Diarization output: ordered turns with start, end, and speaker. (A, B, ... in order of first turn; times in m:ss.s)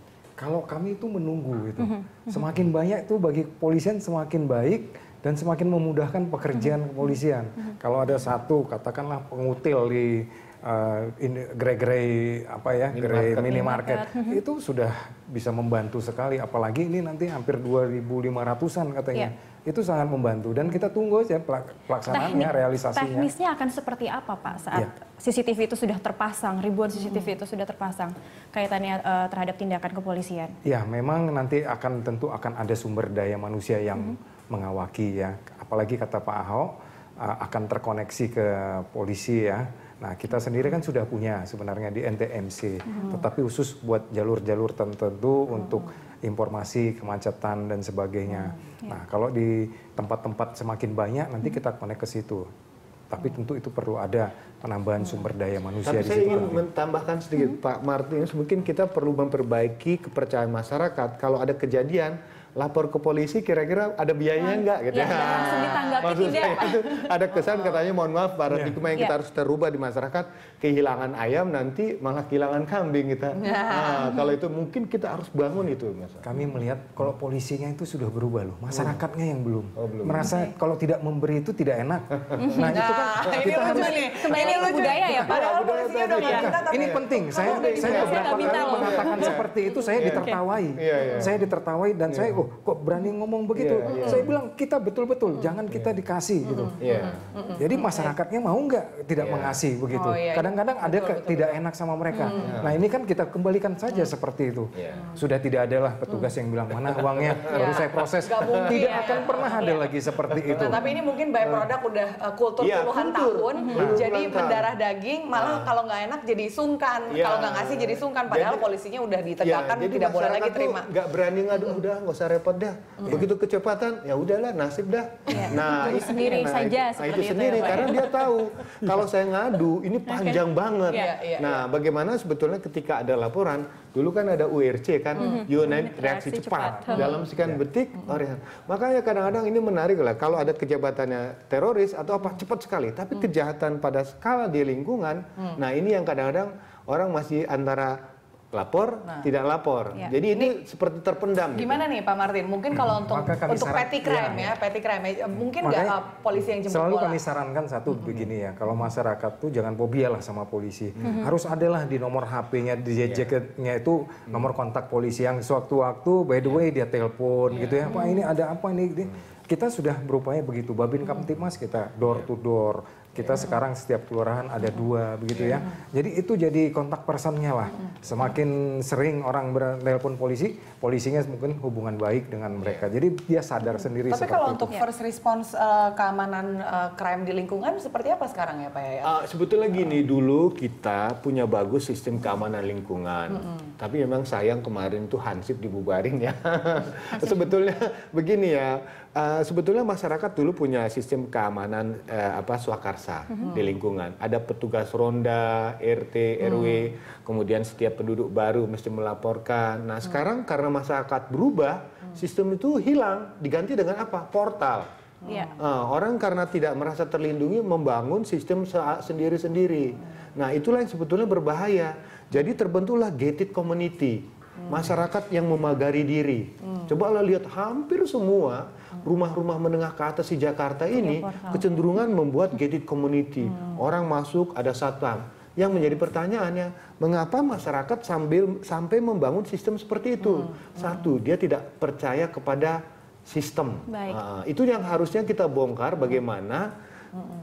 0:00.4-0:23.3 A
0:01.8-0:02.4 B
0:12.9-0:13.5 C
0:13.5-0:14.4 B
0:22.1-0:30.5 B
0:30.6-0:52.5 A
0:53.1-0:56.6 A
0:55.8-1:16.2 C
1:04.4-1:06.8 B
1:08.5-1:08.8 A
1:13.4-1:14.0 D
1:16.2-1:25.4 A
1:18.7-1:19.0 C
1:19.8-1:20.3 C
1:20.2-1:20.5 B
1:22.4-1:22.7 B
1:22.6-1:29.3 D
1:23.6-1:25.4 B
1:25.2-1:29.4 C
1:26.2-1:36.8 A
1:27.6-1:29.4 B
1:29.9-1:30.3 B
1:30.0-1:31.4 C
1:32.1-1:32.4 C
1:33.5-1:34.2 C
1:33.9-1:34.2 D
1:36.4-1:38.1 D
1:36.8-1:37.2 C
1:37.5-1:50.8 A
1:39.2-1:39.6 C
1:39.9-1:41.6 D
1:42.2-1:42.5 D
1:42.4-1:42.8 C
1:44.7-1:45.0 C
1:47.3-1:47.8 C
1:47.5-1:49.8 D
1:48.8-1:49.1 B
1:50.5-2:00.9 D
1:52.6-1:54.7 C
1:53.7-1:54.0 A
1:55.3-1:55.7 C
1:57.1-1:58.7 C
1:59.4-2:28.0 C
2:05.3-2:08.1 B
2:10.1-2:10.4 B
2:10.9-2:11.6 D
2:15.2-2:17.2 B
2:17.0-2:17.5 A
2:28.5-2:31.8 C
2:31.5-2:37.2 D
2:32.7-2:34.6 A
2:35.6-2:36.0 A
2:36.6-3:04.7 A
2:41.0-2:41.3 B
2:43.1-2:43.3 C
3:04.1-3:09.1 D
3:09.0-3:34.9 C
3:23.3-3:23.6 B
3:35.2-3:35.5 B
3:35.6-4:06.7 C
3:51.0-3:51.6 B
4:03.9-4:04.2 B